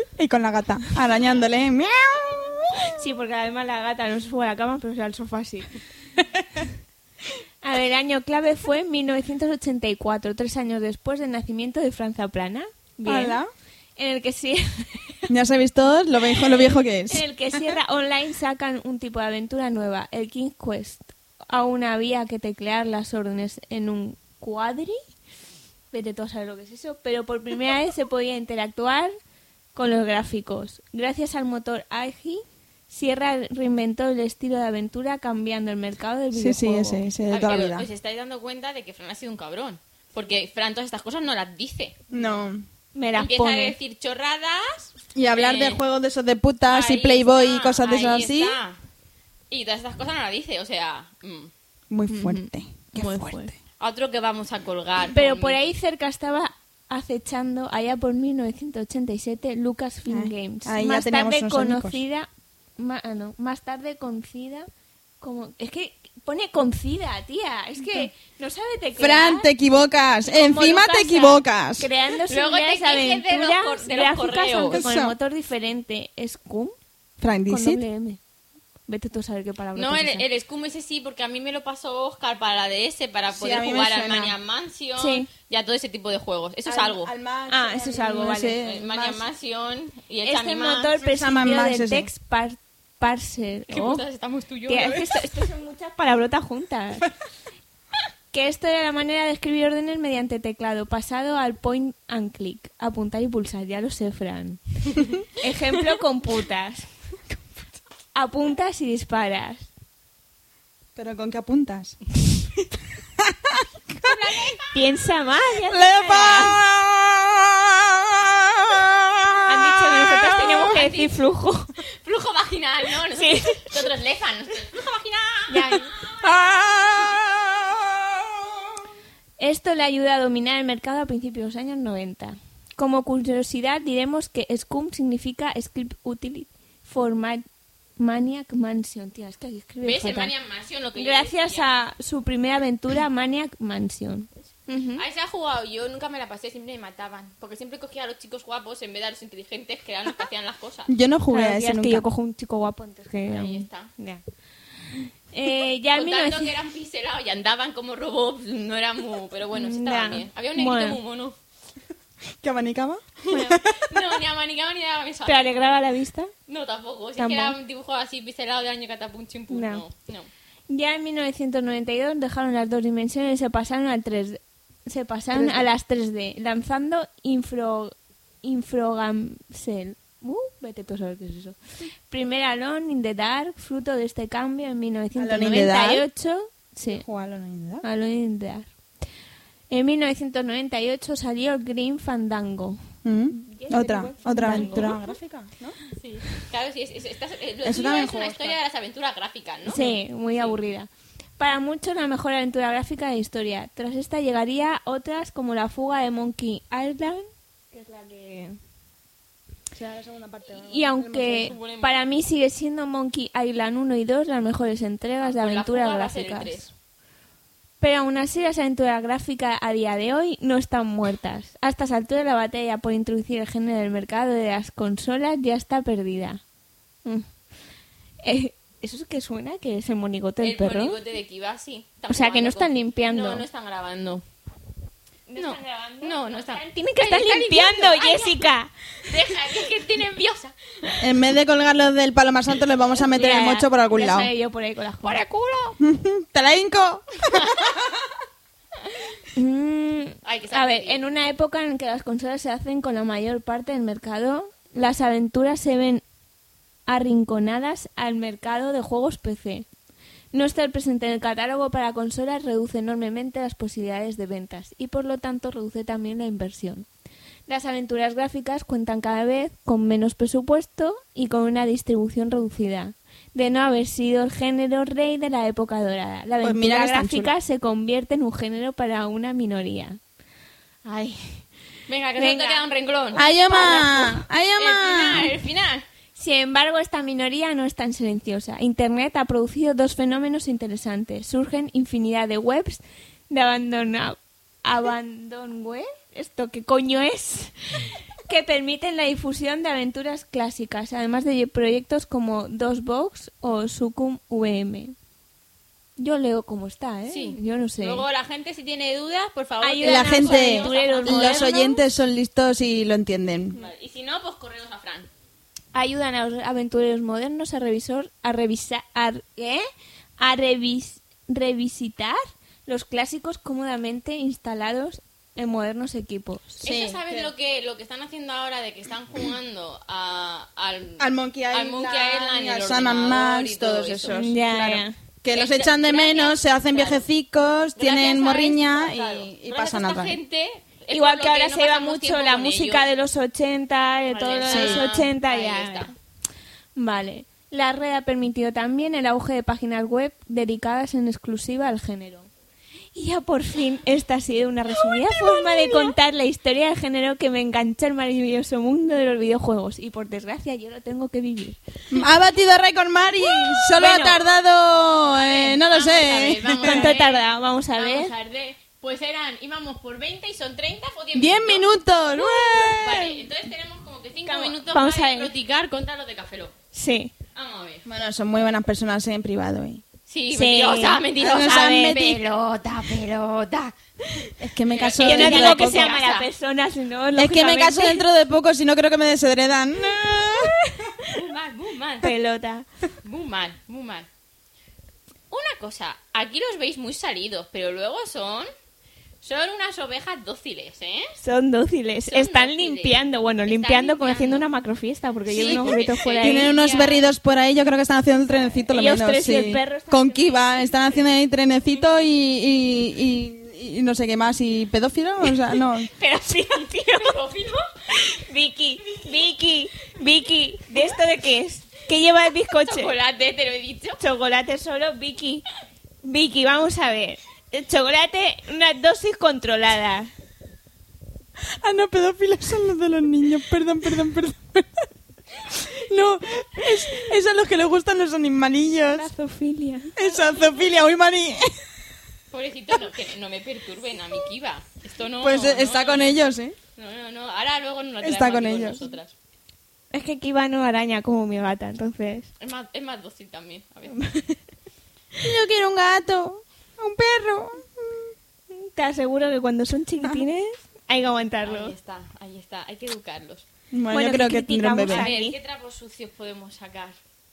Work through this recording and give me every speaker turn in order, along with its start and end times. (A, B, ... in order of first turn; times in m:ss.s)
0:00.2-0:02.9 A
0:03.0-0:05.7 B
0:07.6-0:13.4 B
0:13.1-0:13.5 A
0:14.0-0:15.2 B
0:15.3-0:17.8 A
0:16.4-0:25.0 B
0:25.9-0:29.1 B
0:29.8-0:37.0 B
0:36.3-0:37.9 A
0:37.3-0:42.4 C
0:42.1-0:42.7 A
0:43.0-0:43.8 B
0:43.2-0:45.8 C
0:45.2-0:48.6 A
0:46.7-0:48.8 C
0:49.5-0:51.5 C
0:51.9-0:53.6 A
0:52.1-0:53.5 B
0:53.8-0:55.6 C
0:55.1-1:04.7 B
1:00.1-1:02.0 A
1:05.2-1:09.5 B
1:07.8-1:08.1 A
1:09.0-1:11.9 A
1:10.2-1:16.8 B
1:12.3-1:14.8 C
1:14.7-1:15.2 A
1:17.2-1:17.8 A
1:17.5-1:18.2 B
1:18.9-1:20.3 B
1:19.8-1:27.1 C
1:23.3-1:24.3 A
1:25.0-1:25.3 B
1:26.7-1:29.2 A
1:27.5-1:28.6 B
1:28.6-1:31.0 C
1:30.2-1:34.0 B
1:31.0-1:32.1 A
1:33.7-1:35.1 C
1:34.7-1:37.1 B
1:38.3-1:44.6 B
1:45.4-1:46.9 B
1:48.2-1:49.7 B
1:51.0-1:52.0 A
1:53.2-1:53.6 A
1:54.0-1:54.8 C
1:54.7-1:56.6 B
1:55.7-2:00.0 A
1:59.5-2:01.7 B
2:00.3-2:01.2 C
2:02.0-2:05.8 C
2:03.2-2:03.7 B
2:05.5-2:05.9 B
2:06.2-2:08.7 A
2:09.4-2:17.4 B
2:18.0-2:20.3 B
2:19.8-2:21.7 C
2:21.0-2:25.0 B
2:25.0-2:30.9 C
2:30.9-2:32.0 A
2:31.3-2:34.2 B
2:33.3-2:33.9 C
2:35.3-2:36.5 B
2:35.9-2:41.4 C
2:39.5-2:41.0 B
2:42.4-2:44.0 A
2:43.3-2:43.6 B
2:43.7-2:45.5 C
2:45.3-2:46.3 B
2:46.5-2:50.3 C
2:47.2-2:47.6 B
2:49.5-2:49.8 B
2:50.7-3:01.6 B
2:55.3-2:55.6 A
3:02.1-3:07.0 B
3:05.2-3:06.0 A
3:06.9-3:07.8 A
3:07.8-3:08.7 B
3:09.7-3:12.8 B
3:13.0-3:15.8 A
3:13.3-3:15.0 B
3:14.5-3:14.9 C
3:16.0-3:20.6 C
3:17.6-3:18.6 A
3:19.7-3:28.6 B
3:29.7-3:31.6 A
3:30.6-3:36.7 B
3:31.3-3:32.0 C
3:35.2-3:36.7 C
3:37.8-3:46.4 B
3:48.2-3:51.0 B
3:50.4-3:54.2 C
3:52.1-3:53.4 B
3:55.3-3:58.7 B
3:55.4-3:58.4 C
3:59.1-4:00.6 C
4:01.0-4:04.3 A
4:03.1-4:05.2 B
4:05.0-4:05.8 C
4:05.8-4:07.8 A
4:07.3-4:07.7 C
4:09.4-4:16.0 B
4:10.2-4:11.0 C
4:16.9-4:19.7 B
4:20.3-4:26.9 B
4:27.5-4:40.0 B
4:36.4-4:37.4 A
4:40.8-4:41.4 B
4:41.9-4:43.2 C
4:42.2-4:44.2 B
4:43.1-4:45.3 A
4:44.6-4:45.8 C
4:46.2-5:05.0 B
5:06.0-5:08.0 B
5:07.1-5:11.6 C
5:09.6-5:11.8 B
5:09.8-5:13.6 A
5:13.5-5:15.1 C
5:15.7-5:19.7 B
5:20.2-5:26.6 B
5:26.6-5:27.3 A
5:26.6-5:34.2 C
5:31.0-5:40.2 A
5:34.1-5:34.9 B
5:35.3-5:37.0 C
5:37.8-5:42.9 C
5:40.9-5:45.9 B
5:44.1-5:45.9 C
5:44.5-5:44.8 A
5:46.8-5:52.3 B
5:53.0-6:01.6 B
6:01.9-6:06.9 A
6:03.8-6:04.2 B
6:05.2-6:07.2 C
6:06.6-6:08.1 B
6:07.8-6:16.5 C
6:11.2-6:13.3 A
6:14.3-6:15.3 B
6:16.7-6:17.1 B
6:17.4-6:17.8 C
6:17.8-6:19.8 A
6:20.1-6:23.7 C
6:20.3-6:22.0 B
6:21.2-6:22.2 A
6:24.4-6:25.9 A
6:24.7-6:26.3 C
6:25.0-6:28.0 B
6:27.2-6:30.6 A
6:31.1-6:32.1 C
6:32.0-6:32.7 B
6:33.0-6:34.1 C
6:35.3-6:38.5 C
6:39.2-6:41.1 C
6:41.2-6:46.5 B
6:42.1-6:44.4 C
6:45.3-6:47.1 C
6:45.4-6:55.9 A
6:48.6-6:50.8 B
6:55.9-6:57.2 B
6:56.6-6:57.6 C
6:57.9-7:02.9 B
7:02.6-7:04.0 C
7:04.0-7:05.4 B
7:06.0-7:10.1 B
7:11.6-7:14.8 A
7:15.5-7:19.1 A
7:18.9-7:19.9 B
7:20.0-7:21.5 A
7:20.0-7:20.6 C
7:22.3-7:26.2 C
7:25.2-7:26.6 A
7:26.8-7:29.1 C
7:28.0-7:28.8 A
7:29.9-7:32.3 B
7:32.4-7:34.0 C
7:33.9-7:34.4 B
7:35.2-7:38.1 A
7:38.5-7:41.7 B
7:41.4-7:43.4 C
7:43.7-7:45.1 A
7:43.9-7:45.4 B
7:44.9-7:47.0 C